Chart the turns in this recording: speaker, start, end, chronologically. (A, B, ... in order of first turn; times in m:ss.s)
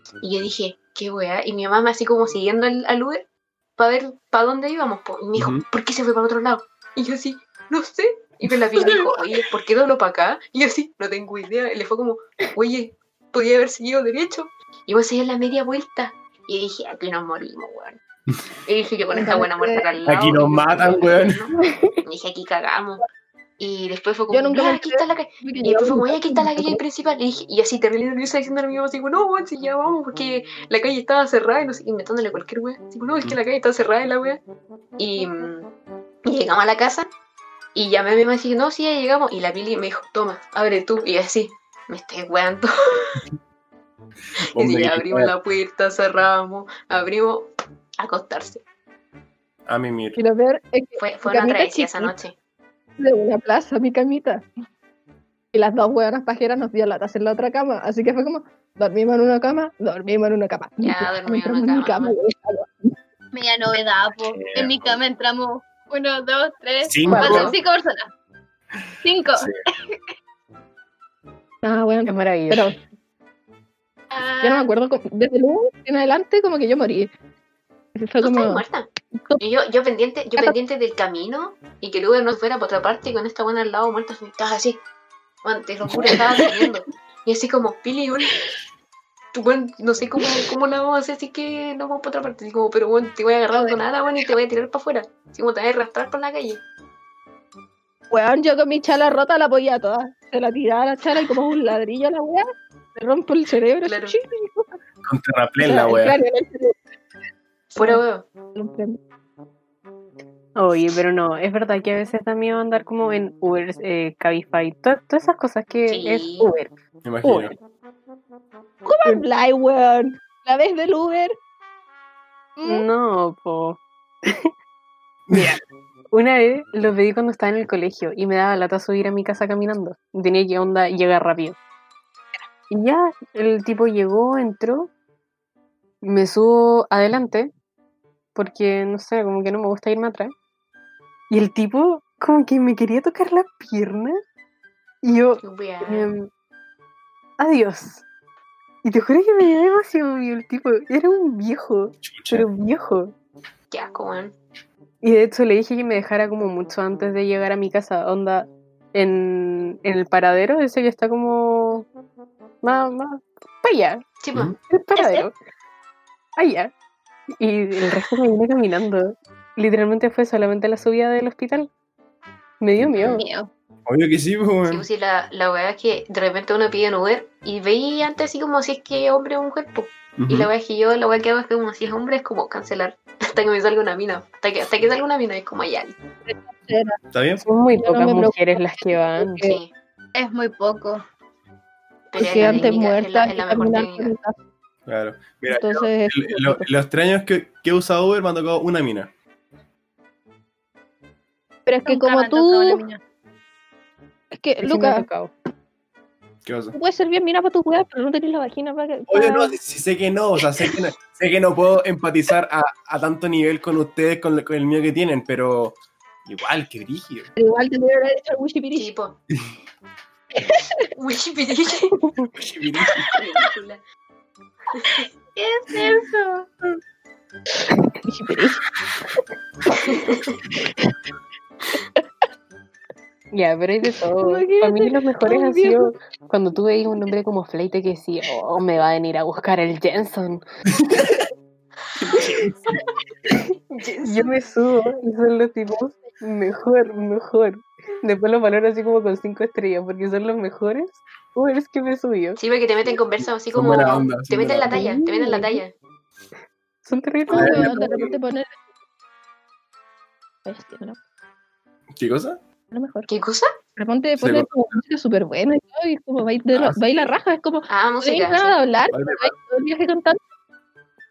0:00.2-0:18.0 A
0:05.4-0:05.6 B
0:18.7-0:21.5 A
0:19.1-0:19.9 C
0:20.1-0:21.4 B
0:22.0-0:23.0 A
0:23.6-0:34.4 A
0:24.3-0:26.8 C
0:35.0-0:35.7 A
0:36.2-0:37.1 A
0:37.8-0:43.2 A
0:44.5-0:45.3 B
0:44.6-0:48.6 A
0:49.7-0:50.2 B
0:50.2-0:52.1 C
0:51.0-0:52.4 A
0:53.0-0:54.4 C
0:55.5-1:03.0 C
1:00.8-1:02.1 A
1:03.3-1:08.1 D
1:04.3-1:05.0 B
1:06.8-1:07.5 B
1:07.1-1:07.5 E
1:07.3-1:07.5 A
1:09.0-1:10.0 D
1:11.6-1:12.8 C
1:12.1-1:12.7 E
1:14.1-1:14.6 D
1:14.4-1:17.1 C
1:18.0-1:18.6 C
1:18.2-1:18.9 A
1:19.2-1:19.4 C
1:19.4-1:24.8 A
1:25.4-1:28.4 A
1:29.3-1:36.6 A
1:38.1-1:44.8 C
1:43.8-1:44.2 A
1:45.0-1:46.2 B
1:45.6-1:46.8 C
1:47.7-1:48.3 A
1:47.8-1:48.0 C
1:48.6-1:49.0 C
1:50.6-1:56.7 E
1:55.9-1:56.5 A
1:57.0-1:57.5 B
1:57.2-1:57.6 E
1:58.8-2:01.4 C
2:02.6-2:02.9 C
2:02.6-2:04.5 E
2:05.3-2:05.6 B
2:05.3-2:05.6 E
2:06.1-2:11.6 E
2:12.7-2:14.9 E
2:16.0-2:17.5 E
2:18.4-2:20.3 E
2:21.3-2:24.2 E
2:25.0-2:26.3 E
2:25.4-2:26.1 A
2:27.4-2:28.0 E
2:28.8-2:33.1 E
2:32.0-2:32.5 B
2:33.7-2:34.4 A
2:35.0-2:41.9 E
2:42.6-2:44.0 E
2:44.2-2:44.5 A
2:44.6-2:45.3 E
2:45.0-2:45.3 D
2:46.4-2:46.7 E
2:47.4-2:51.7 E
2:52.6-2:53.2 E
2:52.8-2:53.2 B
2:53.0-2:53.5 D
2:53.9-2:54.9 B
2:54.7-3:06.0 A
3:00.2-3:00.5 B
3:06.3-3:07.0 C
3:07.1-3:07.4 B
3:07.4-3:09.5 E
3:07.8-3:09.6 C
3:09.4-3:09.7 A
3:10.2-3:11.0 D
3:12.1-3:14.1 A
3:12.2-3:14.4 C
3:14.9-3:19.1 B
3:15.5-3:16.7 C
3:21.7-3:22.8 C
3:21.9-3:23.0 D
3:24.3-3:25.1 C
3:24.6-3:25.3 E
3:26.4-3:26.8 B
3:26.7-3:29.6 C
3:29.1-3:37.3 B
3:37.4-3:38.9 C
3:38.7-3:39.2 A
3:40.4-3:40.7 C
3:41.0-3:41.9 A
3:42.3-3:43.1 B
3:43.1-3:43.8 A
3:44.7-3:45.1 A
3:45.4-3:46.5 D
3:48.0-3:48.6 C
3:49.9-3:50.3 A
3:53.3-4:00.4 E
3:54.2-3:55.9 C
4:02.1-4:02.5 B
4:03.7-4:12.4 E
4:12.4-4:15.7 A
4:13.2-4:14.9 B
4:14.7-4:15.6 E
4:16.8-4:18.1 E
4:17.3-4:18.6 C
4:17.3-4:18.1 B
4:20.5-4:21.0 C
4:22.0-4:22.4 B
4:22.7-4:23.1 C
4:23.1-4:23.5 A
4:23.8-4:30.2 C
4:24.2-4:24.5 B
4:26.5-4:26.8 B
4:27.7-4:28.6 A
4:28.9-4:29.3 B